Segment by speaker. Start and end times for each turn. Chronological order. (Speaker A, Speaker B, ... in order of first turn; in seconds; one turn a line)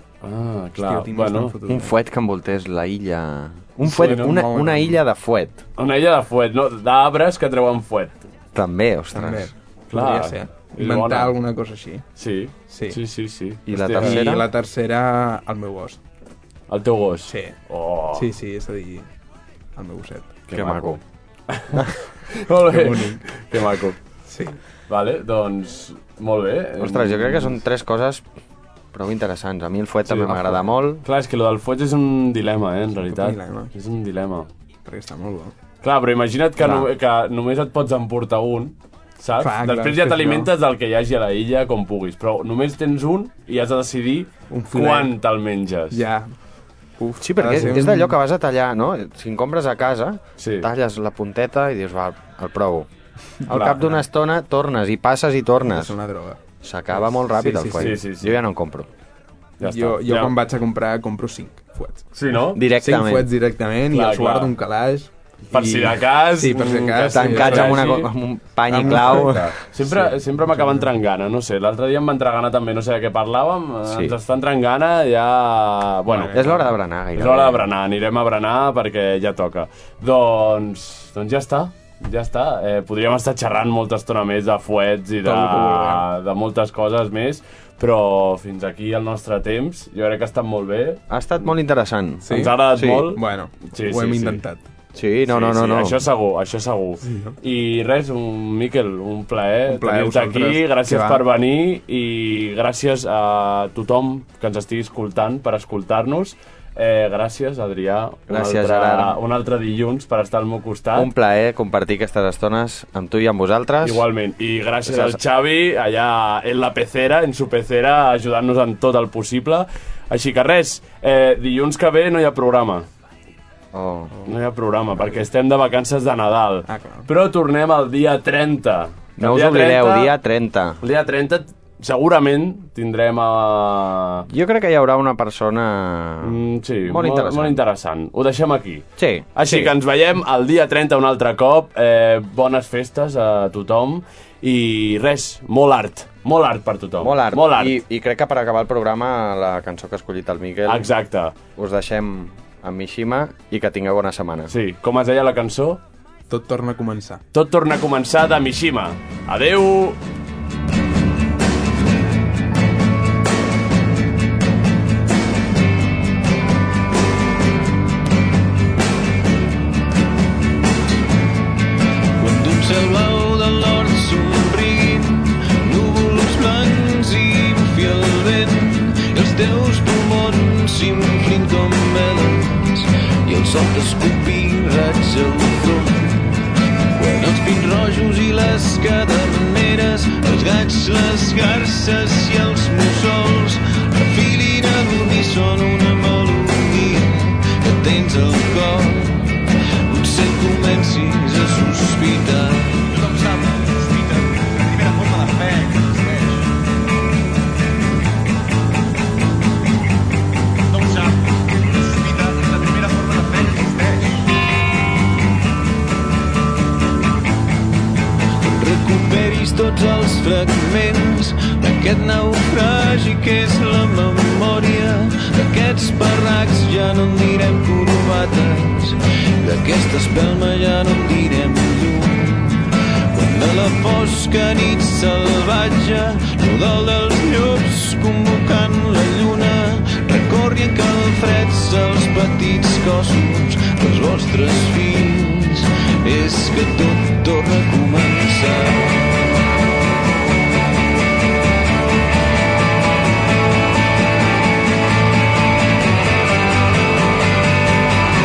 Speaker A: 0.2-1.6
Speaker B: 0.8-1.9
Speaker C: 1.7-5.6
Speaker B: 3.8-5.0
Speaker A: 4.0-4.3
Speaker A: 5.8-8.2
Speaker C: 8.5-9.5
Speaker B: 9.1-12.0
Speaker A: 9.9-11.3
Speaker A: 12.2-14.3
Speaker B: 12.7-13.0
Speaker C: 13.7-14.4
Speaker B: 13.9-16.0
Speaker A: 16.7-18.3
Speaker B: 17.3-17.6
Speaker B: 18.1-19.1
Speaker B: 19.8-20.4
Speaker A: 20.5-24.0
Speaker C: 20.5-21.0
Speaker B: 22.6-23.3
Speaker B: 24.3-24.6
Speaker A: 24.9-27.6
Speaker C: 26.8-28.2
Speaker C: 28.9-31.0
Speaker A: 30.1-34.5
Speaker B: 33.0-33.7
Speaker B: 34.9-35.5
Speaker A: 35.8-46.0
Speaker C: 36.6-36.9
Speaker B: 39.4-40.5
Speaker B: 44.5-45.1
Speaker B: 45.9-46.3
Speaker B: 47.0-48.1
Speaker C: 47.2-52.9
Speaker A: 50.4-50.7
Speaker B: 53.4-54.0
Speaker C: 53.4-55.9
Speaker B: 55.6-56.4
Speaker C: 56.6-58.9
Speaker B: 57.0-58.0
Speaker A: 57.7-58.4
Speaker A: 59.6-60.3
Speaker B: 59.6-67.9
Speaker A: 62.1-62.6
Speaker C: 62.5-63.3
Speaker A: 63.9-64.5
Speaker A: 65.5-68.1
Speaker C: 67.1-69.5
Speaker B: 68.7-70.9
Speaker A: 68.7-76.5
Speaker C: 73.9-74.1
Speaker B: 76.1-76.7
Speaker C: 76.3-77.7
Speaker A: 77.1-91.0
Speaker B: 85.2-86.0
Speaker C: 91.1-93.1
Speaker A: 92.2-94.4
Speaker B: 92.2-94.7
Speaker C: 94.9-96.0
Speaker A: 95.3-111.1
Speaker B: 97.0-97.3
Speaker B: 99.7-101.2
Speaker C: 108.3-109.2
Speaker C: 110.9-114.0
Speaker A: 113.8-122.9
Speaker C: 114.8-115.2
Speaker C: 123.7-124.2
Speaker A: 124.2-130.2
Speaker B: 126.7-127.1
Speaker C: 129.2-130.8
Speaker A: 130.8-134.2
Speaker C: 134.3-137.6
Speaker A: 136.2-147.8
Speaker C: 139.0-139.7
Speaker C: 147.0-150.9
Speaker A: 150.7-151.3
Speaker C: 151.6-154.5
Speaker A: 154.5-155.8
Speaker B: 156.3-157.2
Speaker A: 157.3-160.0
Speaker D: 172.2-206.4
Speaker D: 212.0-214.1
Speaker D: 218.4-249.3